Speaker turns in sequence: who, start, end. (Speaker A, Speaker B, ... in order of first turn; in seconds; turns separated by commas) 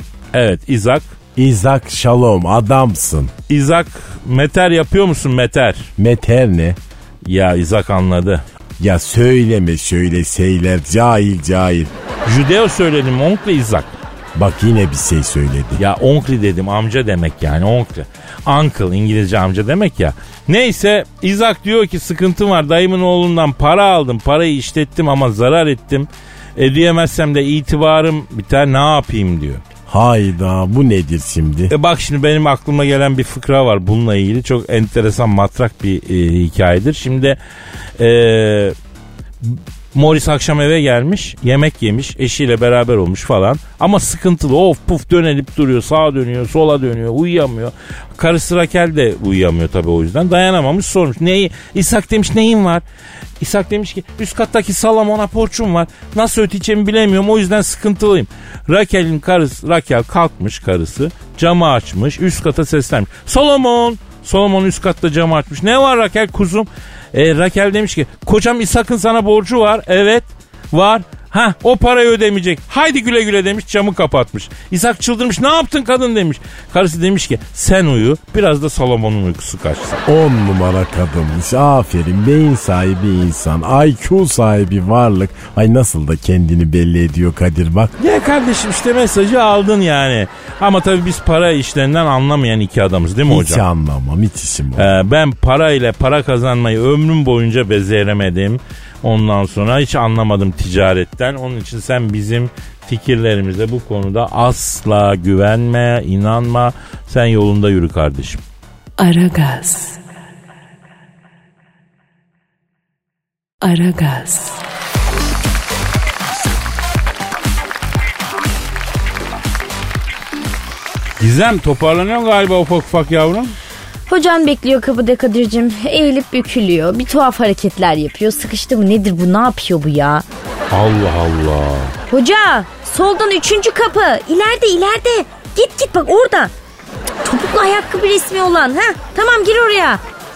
Speaker A: 0.3-1.1, Speaker B: 1.4-3.3, Speaker A: 3.5-5.9, Speaker B: 6.0-6.8, Speaker A: 7.2-8.4, Speaker B: 8.8-11.9, Speaker A: 12.2-13.9, Speaker B: 14.3-15.8, Speaker A: 15.8-29.6, Speaker B: 29.9-31.7, Speaker A: 31.7-37.4, Speaker A: 38.0-38.7, Speaker A: 39.4-52.8, Speaker A: 53.4-80.0, Speaker B: 80.1-87.9, Speaker A: 88.0-93.6, Speaker B: 93.3-94.9, Speaker A: 94.8-108.4, Speaker C: 109.0-110.0, Speaker C: 113.6-114.6, Speaker D: 121.2-123.5, Speaker E: 124.1-130.2, Speaker D: 130.7-131.9, Speaker E: 132.1-136.5, Speaker E: 137.2-140.0